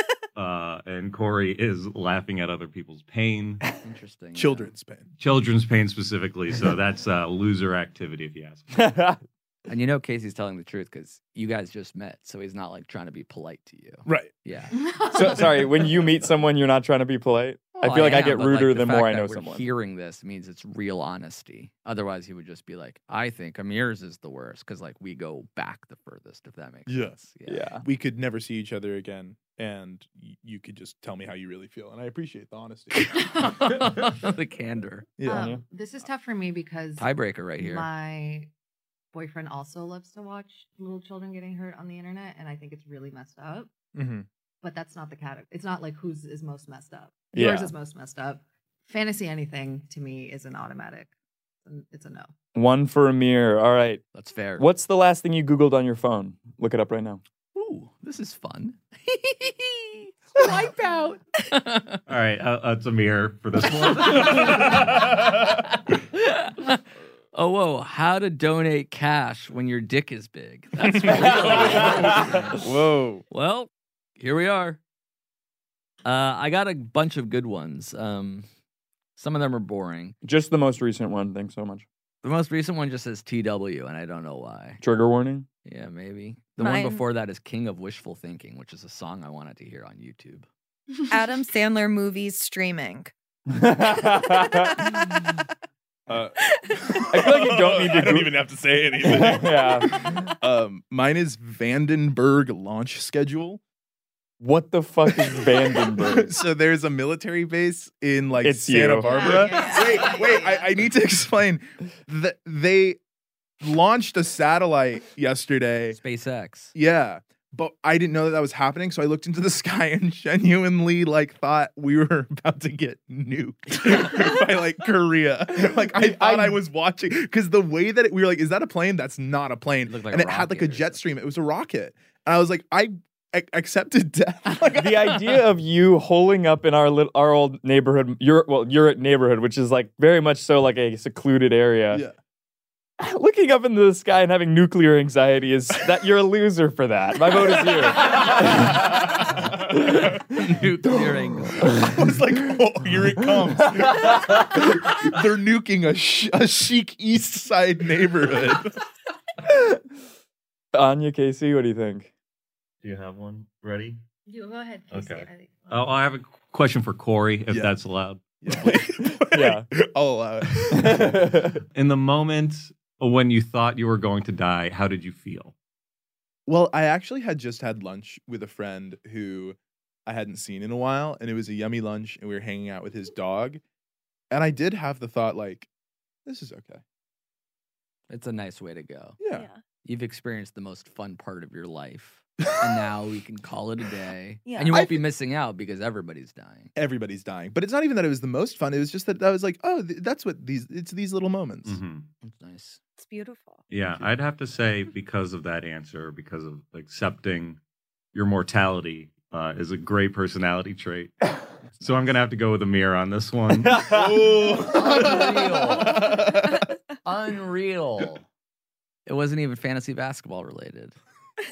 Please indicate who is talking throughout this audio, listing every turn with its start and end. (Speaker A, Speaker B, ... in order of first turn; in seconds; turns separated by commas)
Speaker A: 0.3-3.6, Speaker B: 3.8-4.7, Speaker C: 4.3-5.1, Speaker A: 5.2-8.8, Speaker D: 8.7-9.2, Speaker B: 9.7-14.8, Speaker C: 14.0-14.3, Speaker E: 14.8-15.5, Speaker D: 15.1-19.7, Speaker B: 17.8-27.6, Speaker C: 26.9-27.2, Speaker D: 27.4-27.8, Speaker C: 27.8-33.1, Speaker B: 32.9-35.1, Speaker C: 35.2-35.5, Speaker E: 35.2-38.5, Speaker D: 35.3-35.6, Speaker B: 37.0-37.9, Speaker E: 39.1-43.7, Speaker C: 43.9-44.2, Speaker E: 44.6-51.1, Speaker D: 47.3-47.7, Speaker E: 51.6-52.3, Speaker D: 52.5-54.0, Speaker B: 54.1-54.7, Speaker D: 54.6-57.2, Speaker B: 57.5-60.7, Speaker E: 60.7-61.1, Speaker B: 61.5-62.0, Speaker A: 62.1-65.2, Speaker B: 63.6-66.8, Speaker B: 67.3-72.6, Speaker C: 70.8-73.2, Speaker B: 73.3-74.8, Speaker B: 76.0-78.5, Speaker B: 79.2-80.2, Speaker D: 80.2-81.8, Speaker B: 82.2-84.8, Speaker D: 84.8-85.5, Speaker B: 85.6-90.5, Speaker F: 86.6-87.0, Speaker F: 91.1-93.1, Speaker D: 93.5-94.9, Speaker C: 96.1-103.6, Speaker D: 97.1-98.3, Speaker D: 99.0-100.1, Speaker D: 104.4-106.3, Speaker C: 105.1-113.0, Speaker D: 108.4-109.3, Speaker E: 109.1-110.7, Speaker C: 113.6-116.0, Speaker B: 115.9-116.7, Speaker C: 116.7-135.4, Speaker D: 125.7-126.6, Speaker B: 129.9-131.0, Speaker D: 134.7-142.0, Speaker D: 143.0-148.8, Speaker C: 148.0-148.9, Speaker B: 149.7-151.9, Speaker C: 151.7-158.8, Speaker D: 159.5-159.8, Speaker D: 160.7-162.1, Speaker A: 162.8-164.0, Speaker E: 164.3-165.6, Speaker A: 164.9-168.2, Speaker C: 167.5-167.7, Speaker C: 168.4-171.5, Speaker D: 168.6-169.7, Speaker D: 170.7-171.6, Speaker A: 171.7-175.5, Speaker C: 176.5-183.6, Speaker C: 184.3-185.7, Speaker C: 186.2-186.8, Speaker B: 188.1-189.2, Speaker C: 189.2-189.5, Speaker F: 189.3-189.6, Speaker B: 189.8-196.7, Speaker F: 194.4-194.7, Speaker C: 194.7-195.0, Speaker C: 196.7-201.8, Speaker A: 201.6-202.1, Speaker B: 202.2-202.8, Speaker F: 203.0-203.6, Speaker A: 203.7-207.6, Speaker A: 208.1-211.2, Speaker A: 211.8-214.0, Speaker C: 213.8-216.7, Speaker B: 214.7-216.1, Speaker B: 217.0-218.2, Speaker B: 219.1-220.9